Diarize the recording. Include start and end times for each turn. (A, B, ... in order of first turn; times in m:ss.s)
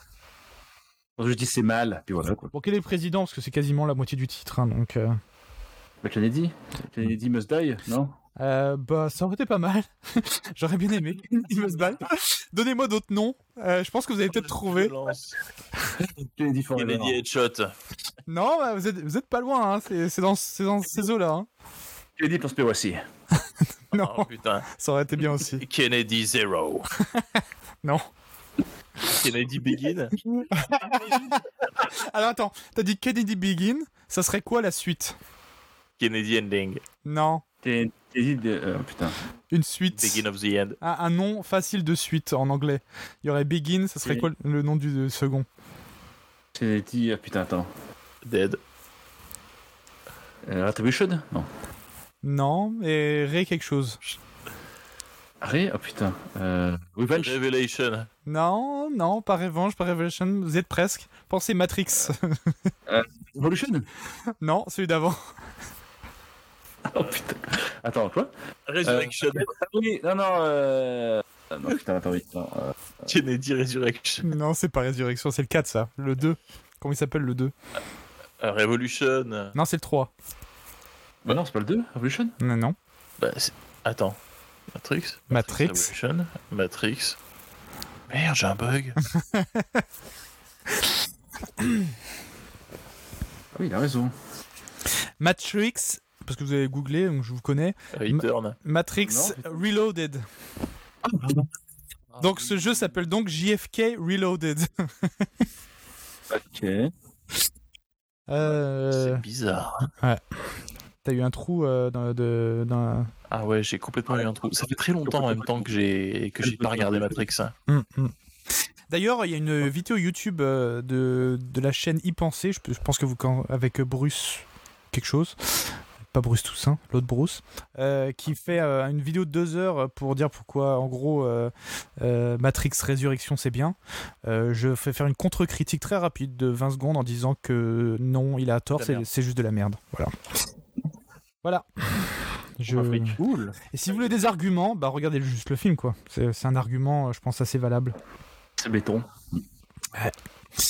0:01.2-0:02.5 A
0:02.5-0:05.2 B
0:06.0-0:08.1 A
0:08.4-0:14.9 B
0:14.3-0:15.4 C
0:16.0-0:17.2 A
0:16.7-0:17.7 C
0:18.3-0:21.5 B
0:22.2-0:23.0 A
0:23.9-0:24.7 C
0:23.9-0:25.6 B
0:25.3-0:26.9 C
0:29.0-0:30.2 C
0:30.2-0:35.2 B
0:36.0-0:36.8 C
0:37.0-0:37.4 B
0:37.6-0:39.2 A
0:39.5-0:40.2 B
0:39.9-0:40.8 C
0:40.8-0:45.5 B
0:44.0-0:44.3 A
0:46.5-0:47.7 A
0:48.2-0:48.6 C
0:50.4-0:51.5 A
0:52.2-0:54.2 B
0:55.4-0:57.4 A
0:57.1-0:58.1 C
0:58.3-1:02.7 B
1:02.9-1:03.9 A
1:04.4-1:05.2 B
1:06.9-1:08.3 A
1:08.7-1:09.5 C
1:08.8-1:13.1 A
1:13.1-1:14.3 C
1:14.2-1:17.5 B
1:18.4-1:19.5 C
1:19.5-1:20.1 B
1:21.2-1:22.3 A
1:22.4-1:22.8 B
1:23.2-1:24.2 C
1:24.7-1:27.2 C
1:25.3-1:25.9 B
1:28.1-1:29.0 C
1:29.1-1:29.8 B
1:31.6-1:31.9 B
1:33.5-1:34.1 A
1:35.2-1:40.2 B
1:37.9-1:38.6 C
1:39.0-1:39.6 A
1:42.1-1:42.6 C
1:42.2-1:45.3 B
1:46.3-1:46.9 A
1:48.3-1:49.2 B
1:48.4-1:49.9 C
1:51.0-1:53.1 B
1:53.3-1:57.5 C
1:55.0-1:55.7 A
1:56.4-1:57.2 A
1:57.7-1:58.1 B
1:58.9-2:20.1 B
2:18.8-2:19.0 C
2:21.4-2:23.2 B
2:22.7-2:23.5 C
2:23.7-2:28.0 B
2:28.6-2:29.4 A